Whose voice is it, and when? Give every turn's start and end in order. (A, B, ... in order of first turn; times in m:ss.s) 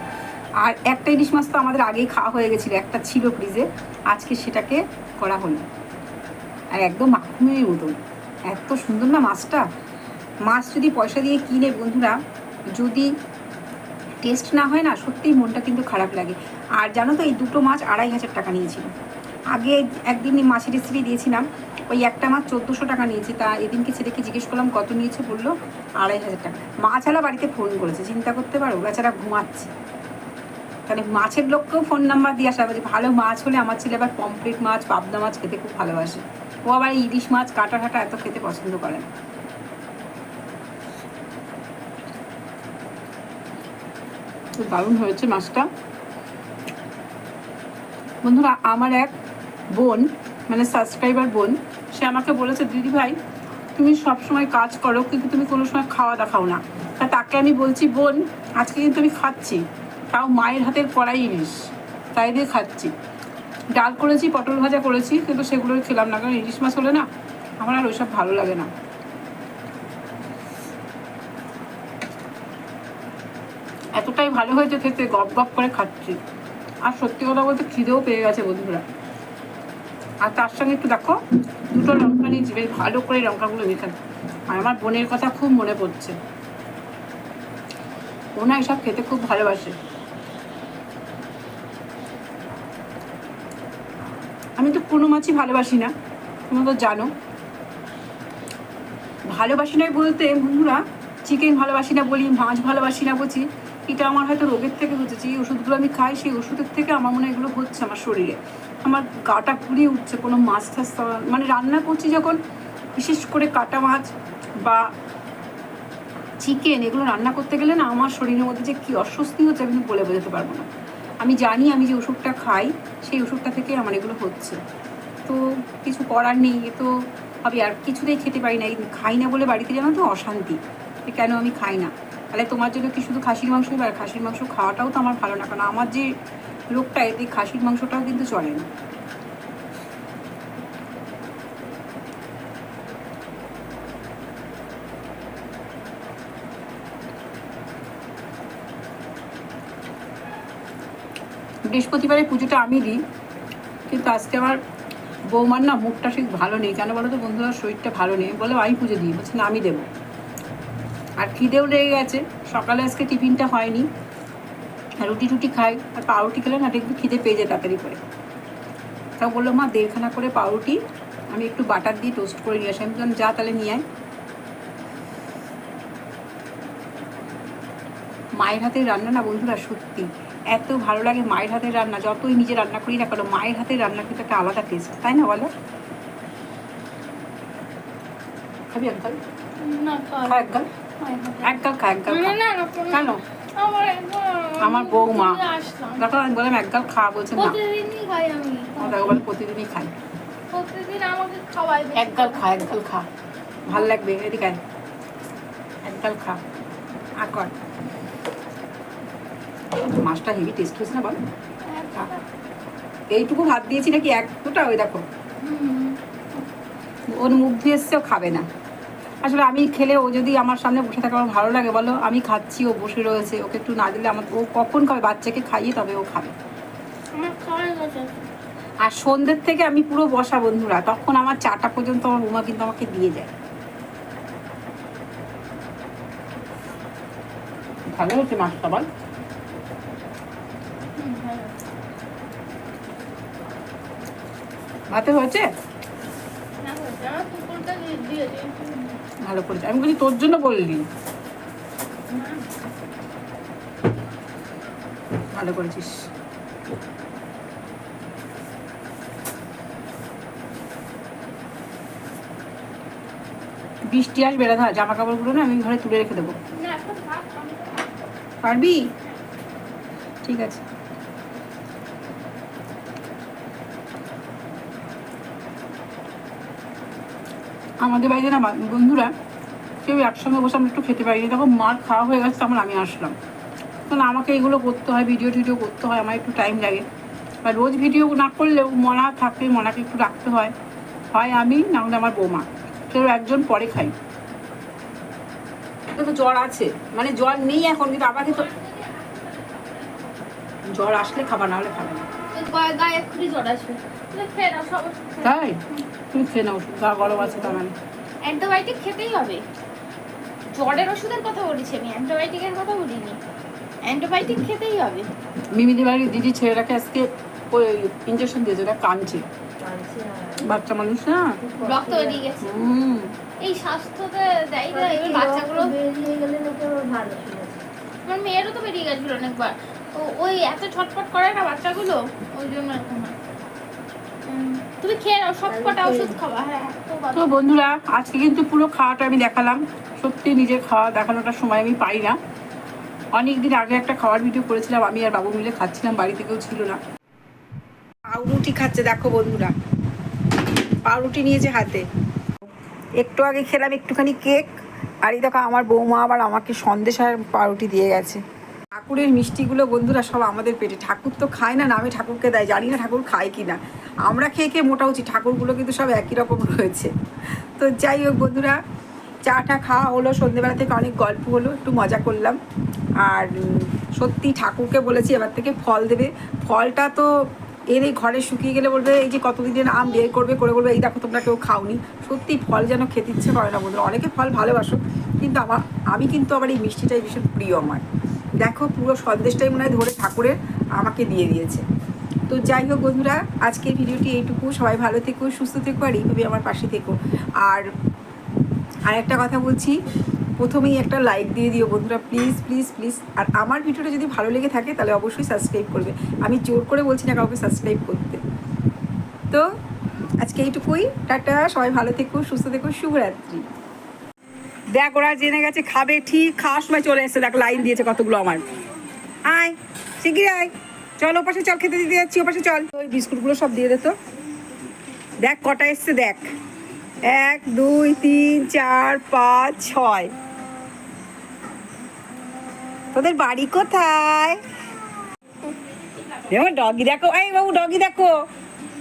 0:00.6-0:05.6 A
0:06.8-0:08.0 A
0:08.5-0:09.7 A
0:10.4-0:12.2 A
0:12.7-0:13.1 A
0:14.2-0:18.9 A
0:19.5-0:29.7 A
0:30.9-0:39.1 A
0:44.6-0:45.7 A
0:48.2-0:49.1 A
0:49.8-0:53.2 A
0:53.8-0:59.6 A
1:00.1-1:01.6 A
1:02.2-1:02.9 A
1:03.8-1:07.1 A
1:07.6-1:08.7 A
1:14.0-1:16.2 A
1:16.9-1:18.8 A
1:20.2-1:21.2 A
1:21.7-1:24.0 A
1:24.5-1:26.2 A
1:28.4-1:29.7 A
1:34.6-1:35.9 A
1:36.5-1:37.1 A
1:39.3-1:52.4 A
1:53.0-1:54.1 A
1:56.4-2:00.7 A
2:01.2-2:04.6 A
2:05.3-2:06.9 A
2:07.4-2:16.1 A
2:16.8-2:18.7 A
2:31.7-2:33.0 A
2:33.9-2:34.6 A
2:35.3-2:39.9 A
2:41.2-2:43.9 A
2:45.0-2:48.0 A
2:49.2-2:50.8 A
2:51.3-2:53.8 A
2:58.4-3:05.5 A
3:08.7-3:09.2 A
3:09.6-3:16.1 B
3:10.2-3:10.7 A
3:11.4-3:12.4 A
3:12.9-3:13.2 A
3:14.6-3:15.4 A
3:16.0-3:17.6 A
3:17.4-3:19.2 B
3:18.8-3:19.9 A
3:20.5-3:22.8 B
3:22.0-3:23.1 A
3:23.7-3:24.6 A
3:25.8-3:26.4 A
3:27.2-3:27.5 A
3:29.8-3:31.2 A
3:31.7-3:32.2 B
3:33.1-3:35.0 A
3:35.4-3:36.0 B
3:37.1-3:38.5 A
3:39.2-3:46.3 A
3:47.1-3:48.2 B
3:48.8-3:53.3 A
3:57.9-3:58.9 A
4:01.0-4:01.6 B
4:04.9-4:05.4 A
4:06.6-4:09.0 B
4:09.3-4:10.8 A
4:12.1-4:12.5 B
4:15.3-4:15.9 A
4:23.9-4:26.4 A
4:26.5-4:28.0 B
4:28.4-4:28.9 A
4:30.2-4:30.6 A
4:37.8-4:39.1 A
4:39.8-4:43.2 A
4:43.9-4:46.8 A
4:47.4-4:50.5 A
4:51.1-4:53.9 A
4:56.0-4:58.5 A
4:58.1-5:00.3 B
5:00.7-5:02.0 A
5:02.3-5:05.8 B
5:05.2-5:05.6 A
5:06.1-5:07.7 A
5:07.0-5:07.6 B
5:08.2-5:09.4 B
5:10.5-5:13.2 B
5:13.8-5:15.1 B
5:15.5-5:19.2 A
5:19.6-5:20.6 C
5:20.4-5:21.3 A
5:21.4-5:22.3 C
5:21.6-5:22.7 B
5:22.4-5:23.1 A
5:23.4-5:25.7 B
5:24.7-5:27.6 C
5:28.1-5:33.2 B
5:34.3-5:37.5 B
5:35.5-5:36.2 C
5:37.1-5:42.2 A
5:43.2-5:46.8 A
5:48.1-5:49.5 A
5:50.9-5:51.8 A
5:53.0-5:54.5 A
5:55.1-5:58.2 A
5:58.8-6:06.9 A
6:07.6-6:08.6 A
6:09.3-6:12.4 A
6:13.0-6:17.1 A
6:17.7-6:27.8 A
6:28.4-6:31.6 A
6:32.3-6:37.7 A
6:38.9-6:39.8 A
6:40.4-6:48.2 A
6:50.2-6:53.4 A
6:54.7-6:58.4 A
6:59.3-7:03.9 A
7:05.2-7:06.2 A
7:07.1-7:10.1 A
7:12.9-7:14.4 A
7:16.2-7:18.2 A